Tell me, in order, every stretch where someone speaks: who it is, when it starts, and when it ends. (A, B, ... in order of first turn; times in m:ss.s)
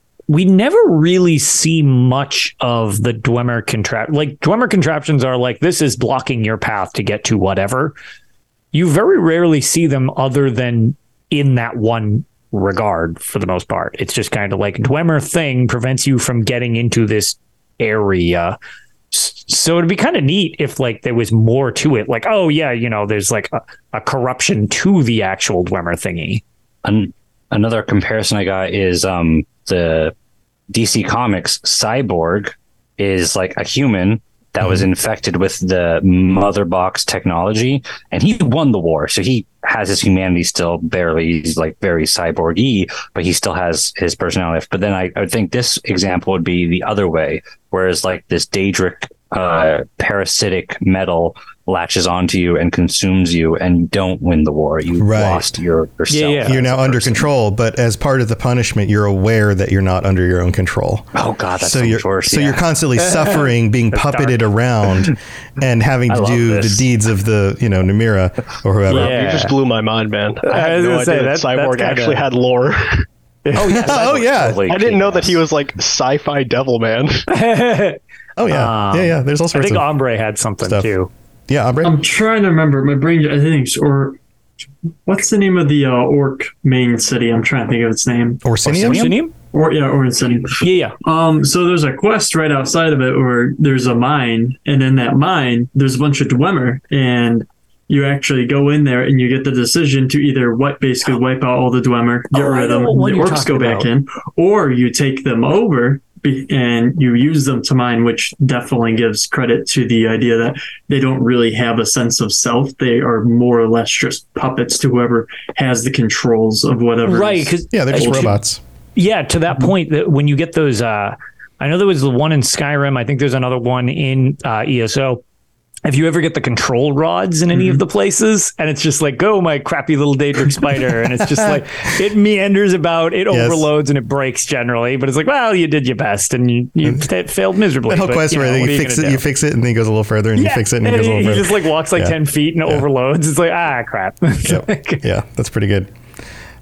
0:00.3-0:08.0 A
0:08.7-0:18.6 A
0:19.1-0:26.4 A
0:26.8-0:30.1 B
0:30.7-0:57.3 B
0:55.0-0:55.5 C
0:56.1-0:56.6 A
0:56.4-1:09.2 C
1:01.2-1:02.6 B
1:03.0-1:04.4 A
1:06.1-1:06.9 B
1:08.9-1:09.6 A
1:08.9-1:13.1 D
1:10.5-1:12.3 A
1:13.4-1:14.0 A
1:13.6-1:14.6 C
1:13.7-1:15.4 B
1:14.7-1:17.2 D
1:17.3-1:21.1 A
1:18.4-1:19.9 C
1:20.6-1:20.9 C
1:21.5-1:22.0 C
1:21.8-1:24.2 E
1:25.1-1:28.4 E
1:28.4-1:29.1 C
1:28.7-1:29.2 B
1:28.8-1:29.3 A
1:29.5-1:58.3 E
1:30.6-1:31.0 A
1:42.3-1:43.9 A
1:57.1-1:58.4 A
1:57.7-1:58.6 C
1:59.0-2:05.2 A
2:05.9-2:19.2 A
2:11.2-2:11.6 C
2:13.3-2:13.7 C
2:17.9-2:22.8 C
2:20.4-2:25.0 A
2:24.4-2:25.9 C